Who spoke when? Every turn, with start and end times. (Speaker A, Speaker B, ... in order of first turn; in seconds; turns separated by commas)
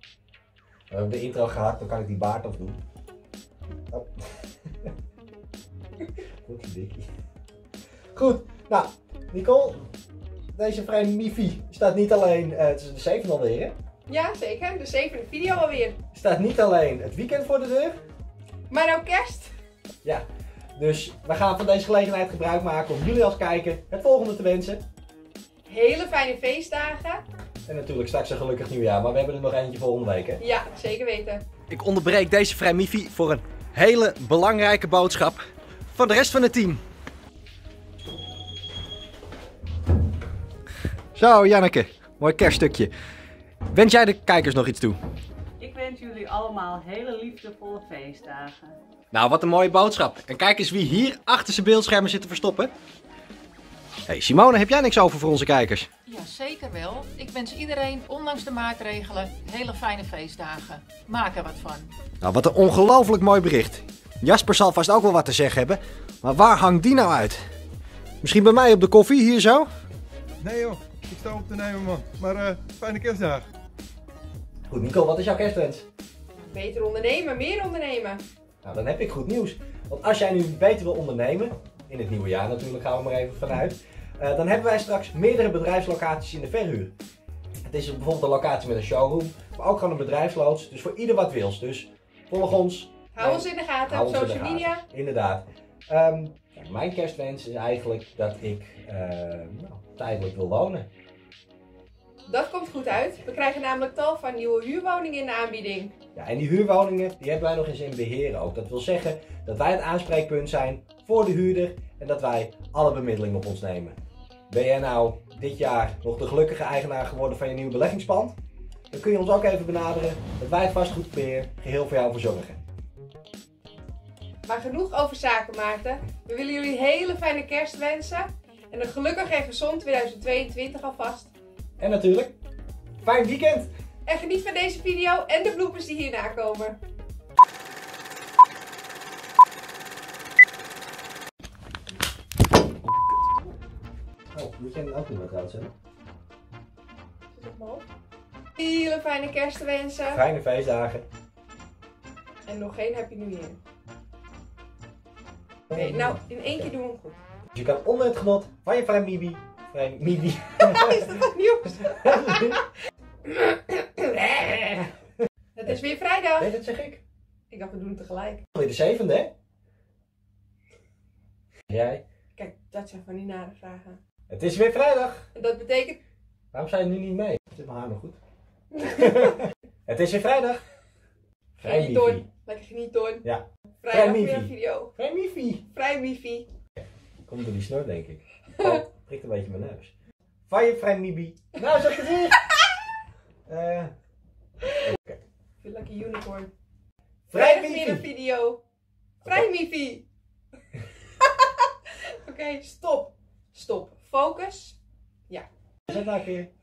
Speaker A: 0.9-2.8, Speaker A: 3.9-4.9, Speaker A: 6.5-7.1, Speaker A: 8.1-9.9, Speaker A: 10.5-13.7, Speaker B: 14.1-16.0, Speaker A: 16.1-18.0, Speaker B: 18.7-19.5, Speaker A: 20.8-24.8, Speaker B: 25.6-27.2, Speaker A: 27.7-30.4, Speaker B: 30.4-31.4, Speaker A: 31.7-35.4, Speaker A: 35.9-36.8, Speaker A: 41.1-42.9, Speaker A: 43.7-45.0, Speaker C: 45.6-48.8, Speaker A: 49.1-52.7, Speaker A: 54.1-55.9, Speaker D: 56.1-61.9, Speaker A: 62.2-67.4, Speaker A: 68.2-69.7, Speaker E: 70.4-73.5, Speaker A: 74.7-75.8, Speaker B: 76.5-78.2, Speaker A: 78.6-86.9, Speaker A: 87.6-100.9, Speaker B: 93.1-94.8, Speaker B: 102.2-106.0, Speaker A: 106.1-118.3, Speaker A: 118.9-122.6, Speaker B: 124.4-131.3, Speaker A: 131.8-132.3, Speaker A: 133.0-133.7, Speaker B: 134.1-136.8, Speaker A: 144.3-145.7, Speaker B: 147.3-147.8, Speaker B: 148.6-150.2, Speaker A: 150.1-151.1, Speaker B: 152.5-153.6, Speaker B: 155.7-157.2, Speaker A: 155.7-156.1, Speaker A: 157.5-161.2, Speaker B: 160.6-162.6, Speaker A: 161.8-162.6, Speaker B: 163.3-163.8, Speaker A: 164.0-164.9, Speaker B: 165.6-166.6, Speaker A: 166.4-167.0, Speaker B: 167.5-168.4, Speaker A: 168.5-169.3, Speaker A: 171.7-172.0, Speaker B: 172.3-174.0, Speaker A: 174.3-175.2, Speaker B: 175.3-176.0, Speaker A: 176.5-178.2, Speaker B: 178.8-179.3, Speaker A: 178.8-180.6, Speaker A: 181.6-182.2, Speaker B: 181.6-183.2, Speaker A: 183.2-185.7, Speaker B: 183.8-184.9, Speaker B: 185.7-186.5, Speaker A: 187.3-189.9, Speaker B: 188.5-188.8, Speaker A: 190.5-192.4, Speaker A: 193.5-193.9, Speaker A: 194.8-195.2, Speaker B: 195.6-196.5, Speaker A: 197.3-198.1, Speaker B: 197.3-198.6, Speaker B: 199.2-200.1, Speaker B: 202.0-204.8, Speaker A: 205.9-206.5